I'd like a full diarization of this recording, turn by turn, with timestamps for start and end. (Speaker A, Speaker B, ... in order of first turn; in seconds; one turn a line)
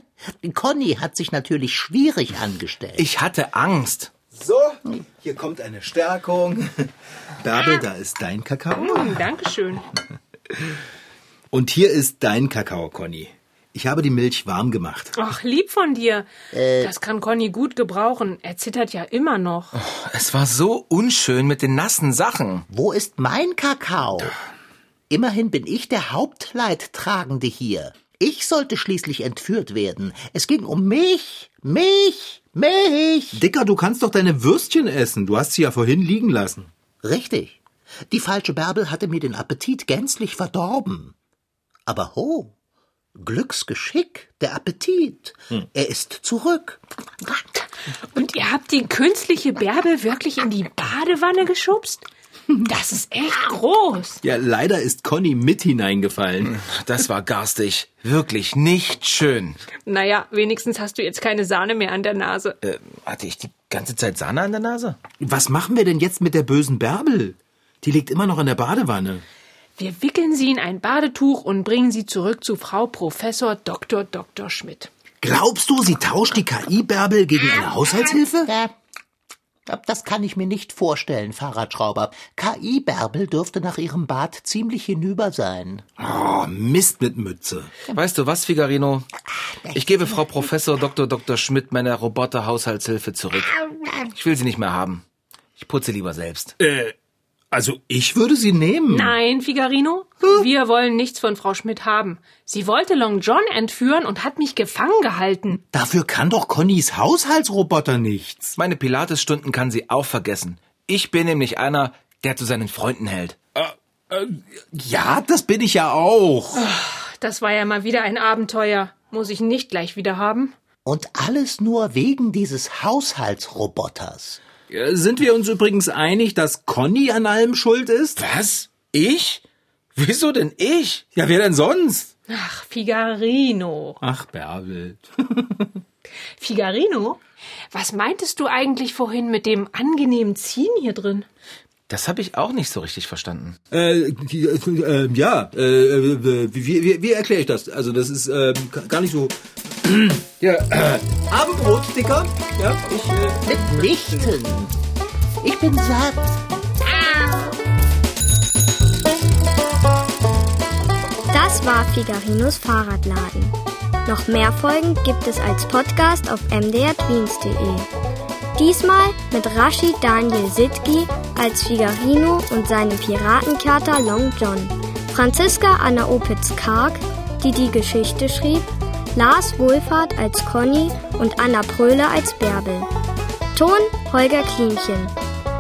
Speaker A: 0.2-3.1
Speaker B: 3.0-4.1
Speaker C: 4.3-9.2
Speaker D: 8.7-9.8
Speaker C: 11.5-15.1
Speaker D: 15.1-16.3
Speaker A: 16.5-16.9
Speaker D: 16.8-19.7
Speaker B: 19.8-22.6
Speaker A: 22.7-24.4
Speaker A: 25.1-33.4
Speaker C: 33.3-36.7
Speaker A: 37.0-41.1
Speaker A: 41.9-42.5
Speaker A: 43.1-46.8
Speaker D: 48.1-52.0
Speaker D: 52.6-54.2
Speaker C: 54.2-56.5
Speaker B: 56.4-59.6
Speaker D: 59.9-62.5
Speaker B: 62.6-65.0
Speaker C: 65.2-69.2
Speaker D: 69.8-74.9
Speaker C: 75.2-78.5
Speaker A: 78.4-78.7
Speaker A: 79.7-85.9
Speaker C: 86.0-87.7
Speaker B: 87.9-89.1
Speaker A: 89.6-90.2
Speaker B: 89.7-95.0
Speaker B: 95.6-96.5
Speaker C: 96.6-96.9
Speaker C: 97.5-99.2
Speaker D: 98.9-105.6
Speaker C: 105.7-108.6
Speaker B: 108.5-113.4
Speaker C: 113.6-116.6
Speaker D: 116.5-120.5
Speaker A: 120.8-124.4
Speaker C: 124.7-128.2
Speaker B: 128.2-129.4
Speaker B: 129.9-131.1
Speaker C: 131.1-132.1
Speaker D: 132.3-134.0
Speaker C: 134.0-135.8
Speaker D: 136.4-137.2
Speaker D: 137.7-141.3
Speaker B: 141.9-143.6
Speaker C: 143.7-154.3
Speaker A: 153.4-154.7
Speaker A: 155.4-156.4
Speaker E: 161.3-167.9
Speaker E: 168.6-182.9
Speaker E: 183.5-185.1